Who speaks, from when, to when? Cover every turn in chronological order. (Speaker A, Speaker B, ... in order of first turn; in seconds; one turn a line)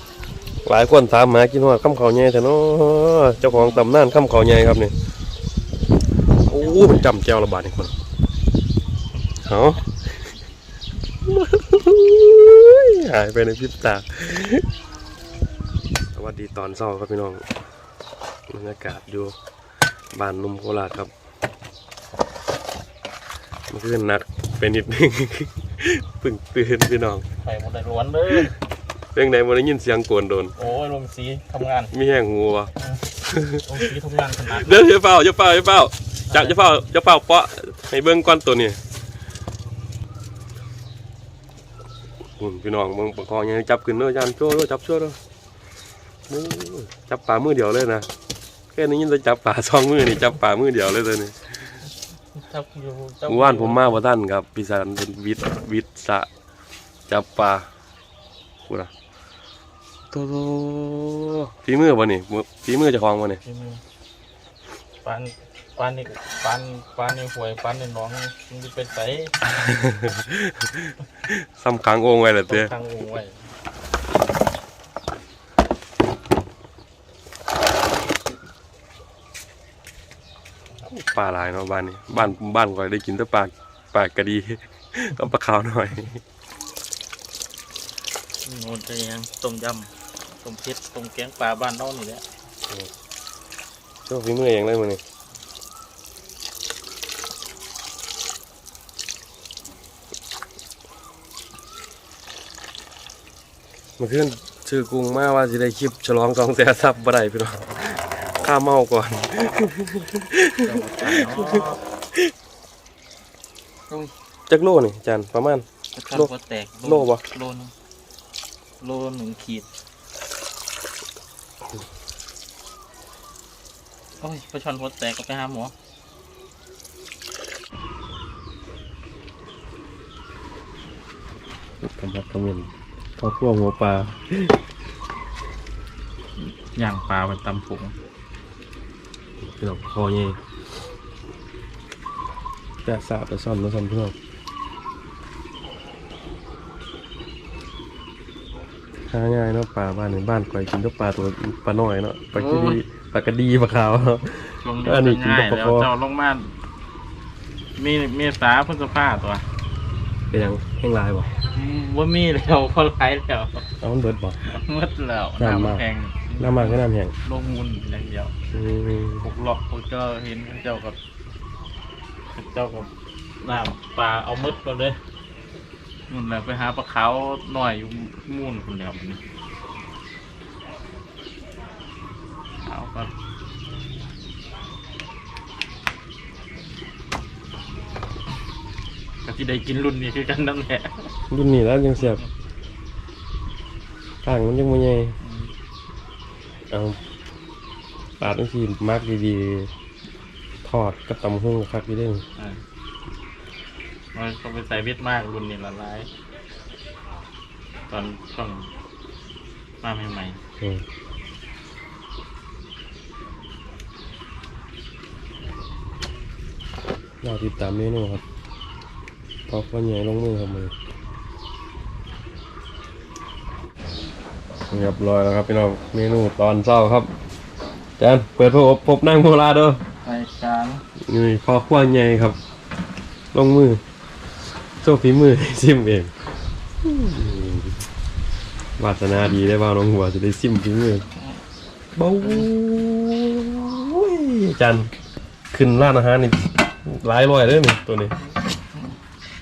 Speaker A: 0.7-4.9
Speaker B: 3.4-3.9
Speaker A: 6.5-7.9
Speaker A: 9.4-9.9
Speaker A: 11.3-14.7
Speaker A: 16.1-17.4
Speaker A: 18.5-19.4
Speaker A: 20.1-21.1
Speaker A: 23.7-27.2
Speaker B: 27.4-28.5
Speaker A: 29.1-30.6
Speaker B: 30.6-31.9
Speaker A: 31.9-32.7
Speaker B: 32.8-34.8
Speaker A: 33.3-33.7
Speaker A: 34.5-38.8
Speaker B: 36.3-36.6
Speaker A: 42.4-45.2
Speaker A: 46.3-48.1
Speaker A: 48.7-51.7
Speaker B: 52.4-54.0
Speaker A: 53.3-56.3
Speaker A: 57.1-57.7
Speaker A: 60.1-63.4
Speaker B: 63.5-63.8
Speaker B: 65.0-69.4
Speaker A: 69.5-72.7
Speaker B: 72.5-73.3
Speaker A: 80.9-86.2
Speaker B: 88.4-92.3
Speaker A: 94.1-95.0
Speaker A: 104.0-111.7
Speaker B: 110.6-111.8
Speaker A: 114.5-116.3
Speaker B: 116.0-117.7
Speaker A: 116.8-117.2
Speaker B: 118.8-119.7
Speaker B: 124.2-125.7
Speaker A: 131.8-134.5
Speaker B: 136.8-137.9
Speaker A: 139.4-140.4
Speaker A: 142.8-144.2
Speaker A: 149.1-155.9
Speaker B: 152.3-152.8
Speaker B: 154.6-156.5
Speaker B: 157.8-159.5
Speaker A: 160.3-161.3
Speaker B: 161.5-163.7
Speaker A: 163.8-164.4
Speaker B: 164.4-168.3
Speaker A: 165.4-165.8
Speaker A: 166.4-167.1
Speaker A: 168.5-169.3
Speaker B: 169.2-171.0
Speaker B: 172.3-172.9
Speaker B: 173.4-175.0
Speaker B: 176.1-179.2
Speaker B: 182.6-183.1
Speaker B: 189.2-191.1
Speaker A: 191.3-192.2
Speaker A: 194.2-195.2
Speaker B: 195.2-195.5
Speaker A: 196.7-197.0
Speaker A: 198.2-199.7
Speaker A: 200.6-202.2
Speaker B: 202.4-202.6
Speaker B: 204.1-206.1
Speaker B: 207.9-208.7
Speaker B: 209.8-210.4
Speaker A: 217.2-218.2
Speaker A: 219.5-220.7
Speaker A: 224.7-227.1
Speaker A: 228.0-229.8
Speaker B: 230.0-230.8
Speaker A: 231.1-232.4
Speaker A: 233.3-233.8
Speaker A: 234.8-236.1
Speaker A: 236.8-237.8
Speaker A: 238.8-241.1
Speaker A: 242.0-244.9
Speaker B: 242.2-242.5
Speaker A: 245.5-248.2